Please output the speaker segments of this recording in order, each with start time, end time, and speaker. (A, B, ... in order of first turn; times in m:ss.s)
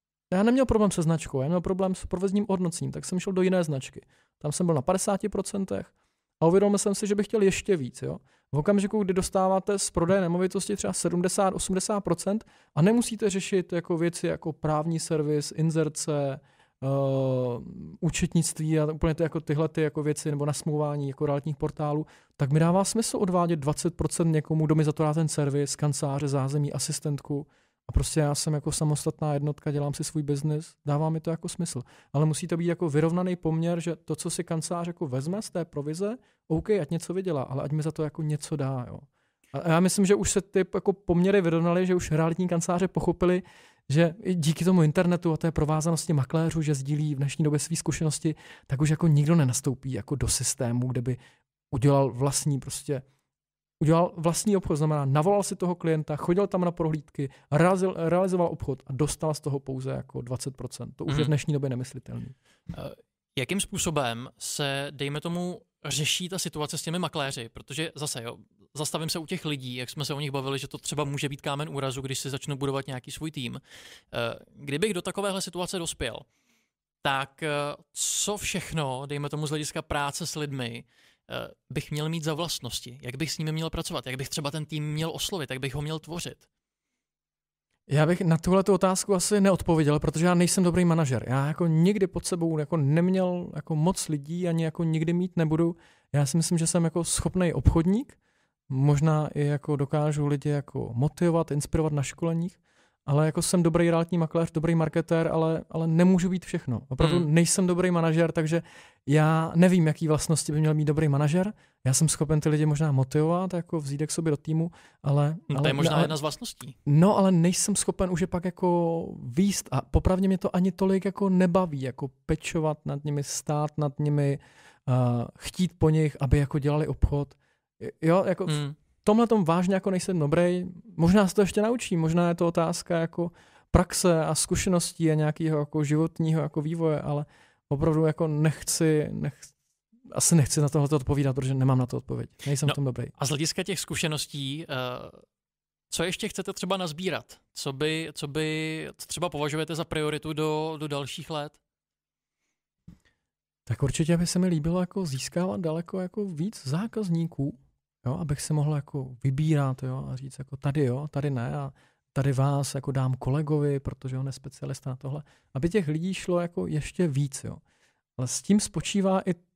0:00.3-0:51.2 A
0:51.7-0:53.0 A
0:53.8-1:02.3 A
1:02.7-1:16.3 B
1:17.0-1:26.4 B
1:27.9-1:38.2 A
1:38.7-1:56.1 A
1:47.0-1:47.3 B
1:55.5-1:56.8 B
1:56.8-2:19.5 A
2:08.5-2:08.8 B
2:20.1-2:23.1 A
2:22.6-2:25.2 B
2:25.9-2:31.6 B
2:33.7-2:47.6 A
2:48.2-2:49.4 A